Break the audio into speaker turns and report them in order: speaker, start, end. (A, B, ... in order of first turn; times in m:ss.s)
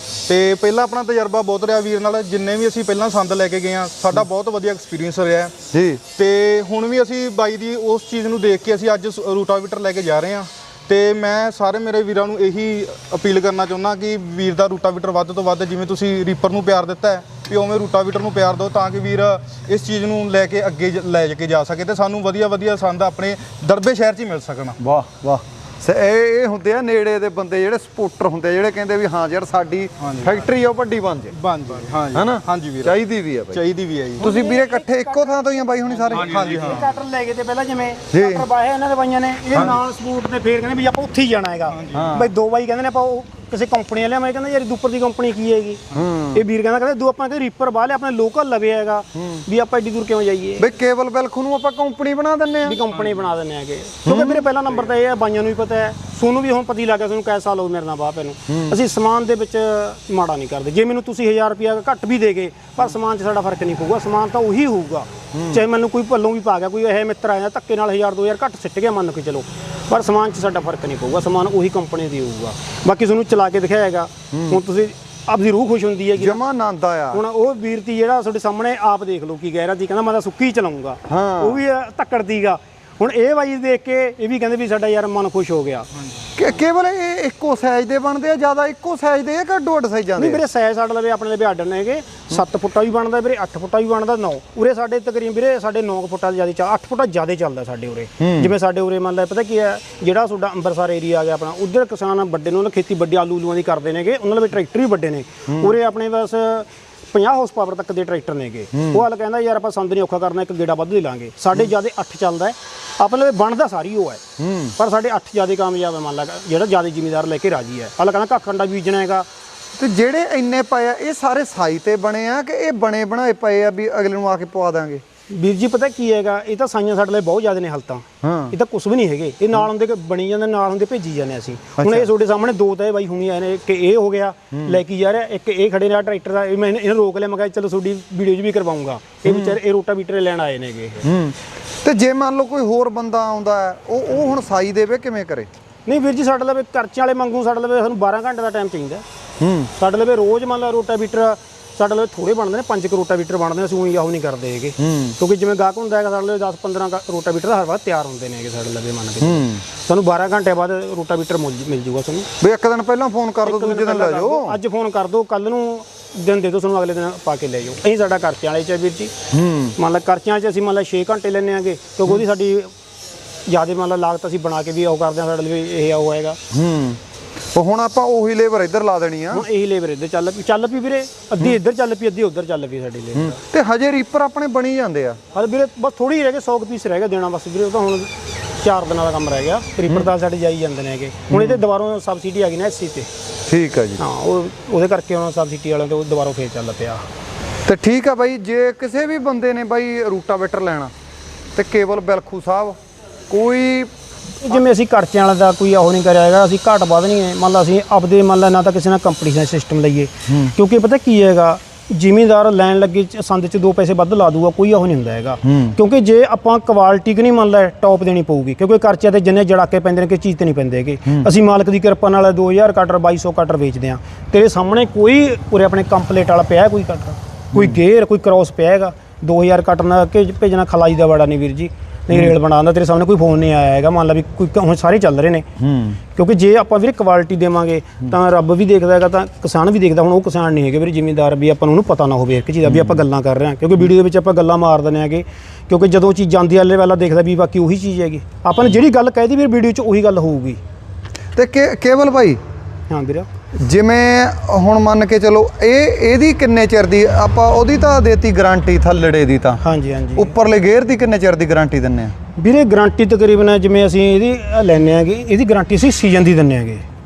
0:00.3-0:05.5 A
0:05.7-0:06.0 B
0:06.1-0:24.8 A
0:24.8-0:31.3 B
0:30.0-0:30.4 A
0:31.3-0:33.0 A
0:32.1-0:33.6 B
0:33.5-0:34.3 A
0:34.2-0:36.8 B
0:34.2-0:50.7 C
0:36.1-0:36.9 A
0:38.1-0:38.4 B
0:41.7-0:42.1 A
0:41.9-0:42.3 B
0:45.9-0:46.4 B
0:49.1-0:49.4 B
0:50.6-0:52.8 B
0:52.6-1:16.4 C
0:54.0-0:54.5 B
0:58.5-0:58.8 B
1:05.3-1:05.6 B
1:14.3-1:14.6 B
1:16.2-1:17.2 B
1:17.1-1:25.9 C
1:21.1-1:21.6 B
1:26.4-1:30.4 B
1:30.2-1:54.2 C
1:38.2-1:38.5 B
1:45.5-1:45.7 B
1:48.7-1:49.0 B
1:54.4-1:54.7 B
1:54.8-1:59.2 C
1:59.8-2:05.0 B
2:05.3-2:21.1 C
2:08.2-2:08.6 B
2:11.8-2:12.1 B
2:14.5-2:14.8 B
2:19.2-2:19.6 B
2:21.0-2:25.5 B
2:25.9-2:29.0 C
2:29.4-2:29.7 B
2:29.8-2:42.3 C
2:34.8-2:35.2 B
2:39.2-2:39.6 B
2:42.4-2:44.6 B
2:43.4-2:49.1 C
2:49.3-2:49.8 B
2:49.8-2:52.7 C
2:53.5-2:56.4 C
2:56.5-2:57.0 B
2:57.5-2:59.5 B
2:59.3-3:03.4 C
3:03.1-3:05.2 B
3:05.3-3:13.1 C
3:11.3-3:11.6 B
3:13.4-3:14.0 B
3:14.0-3:17.0 C
3:17.6-3:20.9 B
3:21.5-3:22.8 B
3:23.3-3:23.9 B
3:24.4-3:55.5 C
3:30.3-3:30.5 B
3:35.4-3:35.8 B
3:47.5-3:47.8 B
3:55.6-3:56.0 B
3:56.1-4:10.6 C
4:02.6-4:03.0 B
4:11.3-4:12.4 B
4:12.9-4:13.3 C
4:13.6-4:19.6 B
4:19.6-4:20.3 C
4:20.1-4:22.1 B
4:22.4-4:26.8 C